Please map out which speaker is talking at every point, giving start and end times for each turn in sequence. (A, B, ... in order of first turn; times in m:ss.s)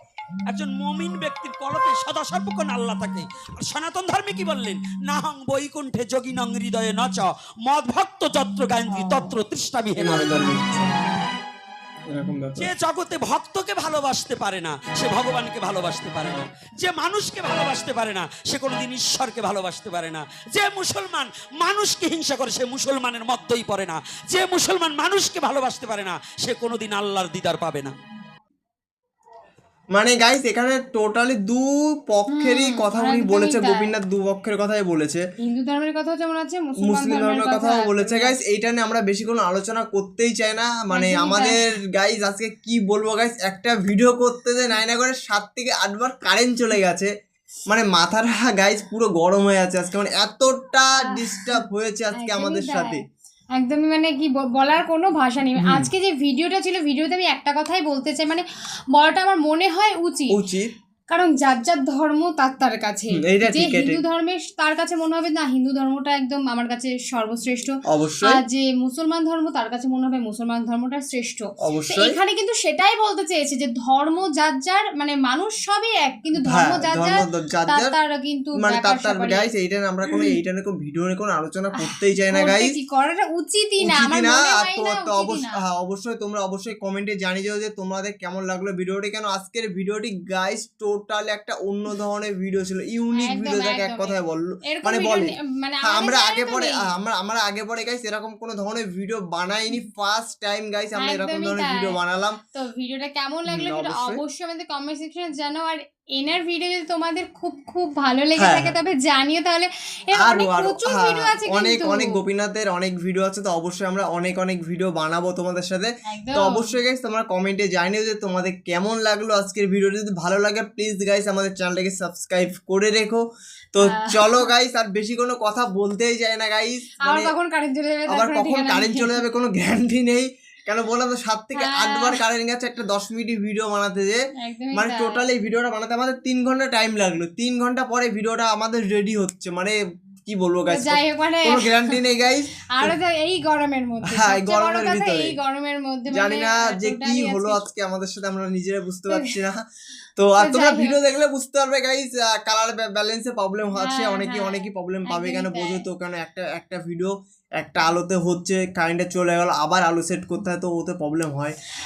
0:00.5-0:10.4 A
0:08.9-0:09.3 B
0:10.0-0:10.7 C
0:10.4-0:11.2 B
0:12.1-0:12.7 C
0:12.6-0:28.0 A
0:29.9-0:35.2 C
0:32.3-0:33.9 B
0:35.4-0:38.4 B
0:36.8-0:47.1 C
0:40.9-0:41.6 B
0:47.7-0:53.0 C
0:51.0-0:51.5 B
0:52.1-0:53.0 B
0:53.6-1:00.4 B
0:55.6-0:55.9 C
1:00.3-1:00.7 C
1:01.1-1:19.5 B
1:03.2-1:04.0 C
1:07.9-1:08.4 C
1:11.6-1:12.2 C
1:16.4-1:17.9 C
1:18.6-1:22.7 C
1:20.1-1:20.4 B
1:21.8-1:25.6 B
1:23.8-1:42.4 C
1:33.1-1:36.9 B
1:41.0-1:42.0 B
1:42.5-1:52.2 B
1:43.5-1:44.2 C
1:48.4-1:48.7 C
1:50.2-2:03.2 C
1:56.1-1:56.7 B
2:03.7-2:07.3 C
2:03.8-2:04.5 B
2:07.0-2:09.2 B
2:08.1-2:14.2 C
2:11.6-2:12.2 B
2:14.4-2:15.2 B
2:14.7-2:19.8 C
2:20.3-2:23.0 C
2:20.7-2:22.0 B
2:22.8-2:27.6 B
2:24.1-2:25.4 C
2:26.1-2:29.6 C
2:30.2-2:41.6 C
2:30.4-2:31.0 B
2:33.8-2:35.8 B